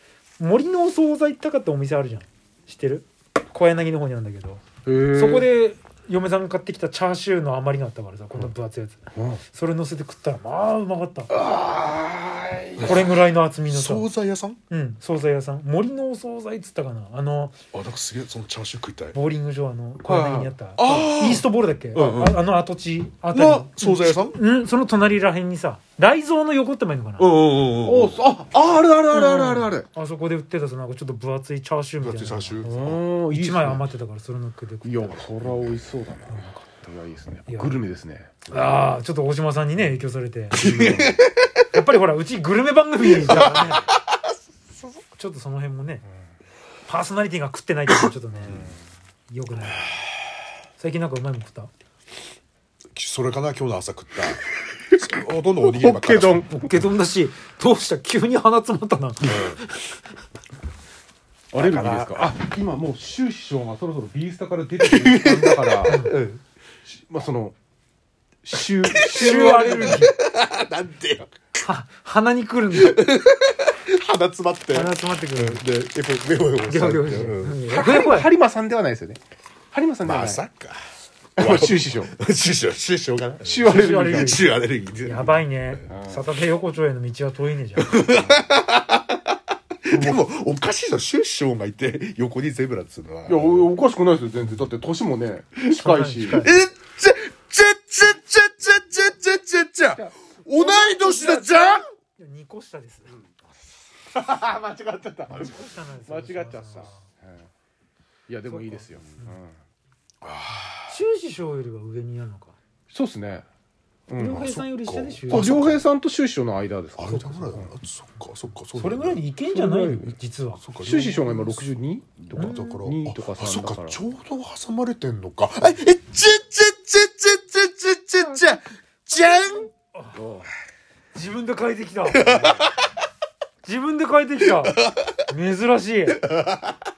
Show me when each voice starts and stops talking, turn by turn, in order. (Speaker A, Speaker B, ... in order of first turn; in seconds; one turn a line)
Speaker A: 0.4-11.3
Speaker B: 4.8-5.5
Speaker B: 9.1-9.4
Speaker B: 11.3-13.1
Speaker C: 12.8-13.2
Speaker A: 12.8-14.1
Speaker C: 13.7-14.6
Speaker A: 14.7-17.6
Speaker C: 17.7-19.2
Speaker A: 19.1-27.4
Speaker B: 20.0-21.0
Speaker C: 20.8-22.4
Speaker C: 23.3-24.4
Speaker C: 27.2-28.2
Speaker B: 27.8-29.9
Speaker A: 29.1-35.3
Speaker C: 32.0-33.0
Speaker B: 32.6-33.8
Speaker B: 34.8-38.3
Speaker A: 36.3-36.6
Speaker A: 37.5-37.8
Speaker A: 38.5-40.6
Speaker B: 40.5-41.2
Speaker C: 40.5-41.7
Speaker A: 41.7-43.9
Speaker C: 43.3-44.0
Speaker A: 45.1-46.0
Speaker A: 46.9-48.6
Speaker B: 48.4-48.8
Speaker C: 48.5-48.7
Speaker A: 49.3-49.9
Speaker A: 50.8-51.7
Speaker C: 52.9-56.5
Speaker B: 55.6-56.6
Speaker A: 56.5-60.0
Speaker C: 59.2-59.6
Speaker B: 61.5-66.1
Speaker C: 61.5-62.4
Speaker C: 64.8-66.4
Speaker A: 65.8-66.2
Speaker B: 66.9-67.5
Speaker B: 68.4-70.1
Speaker C: 68.8-71.3
Speaker A: 69.1-70.1
Speaker A: 71.6-73.0
Speaker C: 72.7-77.6
Speaker A: 74.7-75.6
Speaker A: 76.6-78.3
Speaker B: 77.7-79.2
Speaker B: 79.7-80.4
Speaker C: 80.0-80.8
Speaker B: 81.4-82.1
Speaker C: 81.4-85.7
Speaker B: 83.4-84.5
Speaker A: 83.6-84.5
Speaker A: 85.0-88.0
Speaker B: 85.9-86.2
Speaker C: 87.8-93.7
Speaker B: 93.2-96.5
Speaker A: 95.7-96.6
Speaker C: 96.2-101.8
Speaker A: 100.5-103.2
Speaker B: 104.1-107.5
Speaker A: 105.3-107.0
Speaker B: 108.3-109.5
Speaker A: 108.5-109.3
Speaker C: 110.2-111.0
Speaker A: 110.9-112.5
Speaker B: 112.9-113.4
Speaker B: 114.1-114.6
Speaker A: 114.1-115.7
Speaker C: 114.3-115.8
Speaker B: 115.3-117.7
Speaker C: 117.0-119.2
Speaker A: 118.7-120.6
Speaker B: 119.5-120.2
Speaker C: 120.6-129.7
Speaker B: 120.8-124.0
Speaker A: 122.3-122.8
Speaker A: 129.9-130.2
Speaker B: 130.1-130.5
Speaker A: 131.1-132.6
Speaker C: 132.1-132.7
Speaker A: 133.6-136.2
Speaker C: 134.7-135.2
Speaker C: 136.2-136.7